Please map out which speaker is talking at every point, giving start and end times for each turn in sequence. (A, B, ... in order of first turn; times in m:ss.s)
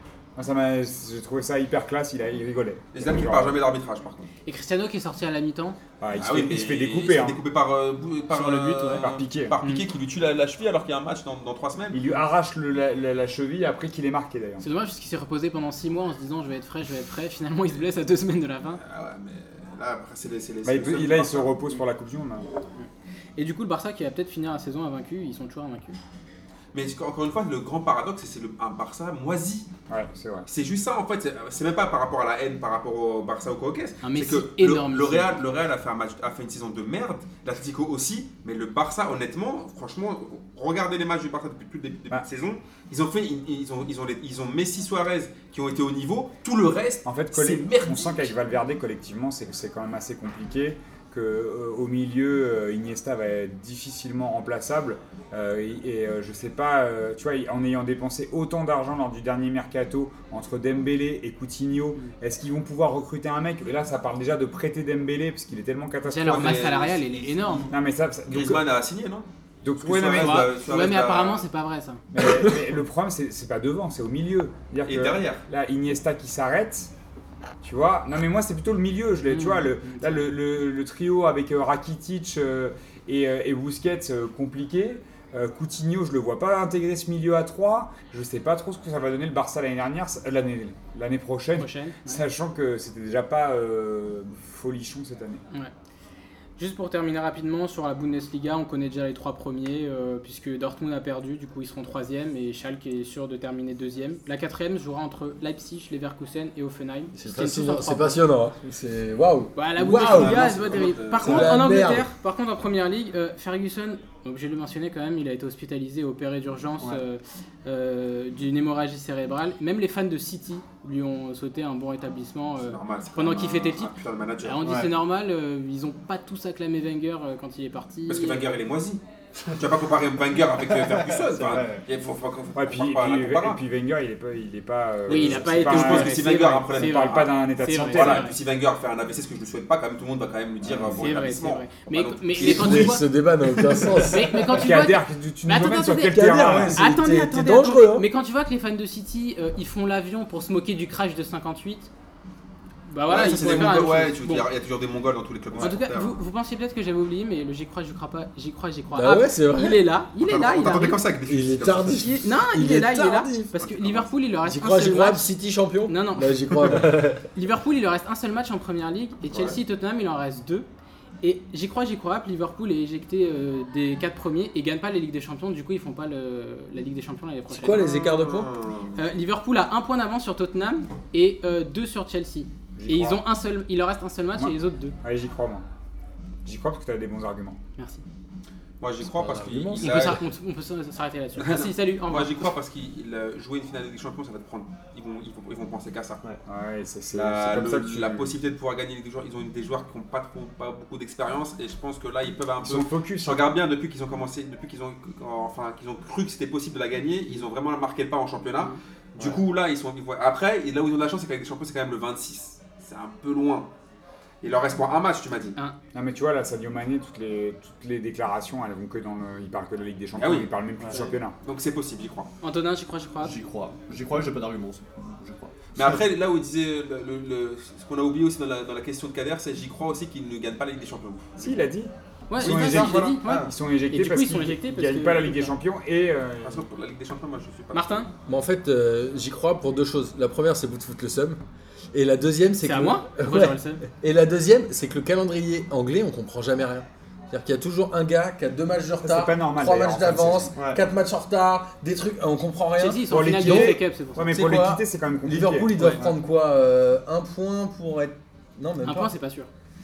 0:00.4-0:03.6 A
0:02.9-0:04.3 B
0:04.4-0:05.8 C
0:06.0-0:07.4 A
0:06.1-0:12.0 B
0:08.3-0:09.6 A
0:11.9-0:14.6 A
0:14.6-0:18.8 C
0:18.8-0:21.6 B
0:20.6-0:22.4 A
0:22.8-0:26.0 C
0:26.7-0:29.7 B
0:29.9-0:30.4 A
0:30.5-0:48.4 B
0:34.0-0:35.4 C
0:47.1-1:06.8 A
1:06.1-1:07.7 C
1:06.2-1:07.7 B
1:07.7-1:08.6 A
1:08.3-1:09.3 B
1:09.6-1:10.5 A
1:09.8-1:11.4 B
1:10.2-1:12.0 C
1:12.1-1:16.9 A
1:14.8-1:15.4 B
1:17.6-1:35.4 A
1:19.3-1:20.3 C
1:31.6-1:32.2 C
1:36.6-1:48.2 C
1:47.1-1:50.5 D
1:49.6-2:03.9 C
1:50.0-1:51.6 B
1:51.1-1:52.1 D
2:02.6-2:04.7 B
2:04.4-2:08.6 C
2:04.6-2:04.9 E
2:08.1-2:13.6 B
2:10.7-2:11.8 E
2:12.6-2:18.3 A
2:15.1-2:18.4 C
2:15.1-2:23.1 B
2:20.7-2:20.9 E
2:20.9-2:23.0 C
2:22.4-2:24.6 D
2:23.7-2:24.0 B
2:24.0-2:31.9 C
2:24.5-2:26.9 A
2:26.0-2:28.1 D
2:32.9-2:34.5 C
2:33.1-2:36.2 B
2:35.6-2:41.0 C
2:38.9-2:39.8 D
2:40.2-2:42.1 B
2:41.3-2:43.5 D
2:41.8-2:45.3 C
2:43.6-2:44.1 B
2:44.4-2:47.2 D
2:45.8-2:50.7 C
2:49.3-2:49.6 B
2:51.2-2:57.8 C
2:57.5-2:58.5 D
2:57.6-2:59.0 B
2:59.0-3:05.0 C
3:02.8-3:03.2 A
3:04.4-3:05.6 A
3:06.4-3:07.6 A
3:07.8-3:08.0 C
3:08.8-3:10.2 B
3:09.0-3:10.2 D
3:09.8-3:12.4 C
3:11.4-3:16.2 B
3:16.4-3:18.3 A
3:17.1-3:33.7 B
3:22.6-3:23.5 A
3:34.4-3:35.6 B
3:35.9-3:41.4 A
3:40.2-3:42.3 B
3:42.4-3:43.4 C
3:43.2-3:46.0 E
3:45.8-3:51.7 B
3:51.4-3:56.7 A
3:52.3-3:55.6 C
3:52.4-3:53.1 B
3:53.2-3:53.5 E
3:56.4-3:58.1 B
3:57.7-3:58.1 C
3:58.3-4:01.4 D
4:01.9-4:19.1 D
4:02.6-4:03.8 C
4:09.0-4:10.6 A
4:12.8-4:14.3 C
4:13.1-4:15.9 A
4:15.8-4:16.0 C
4:18.8-4:19.5 C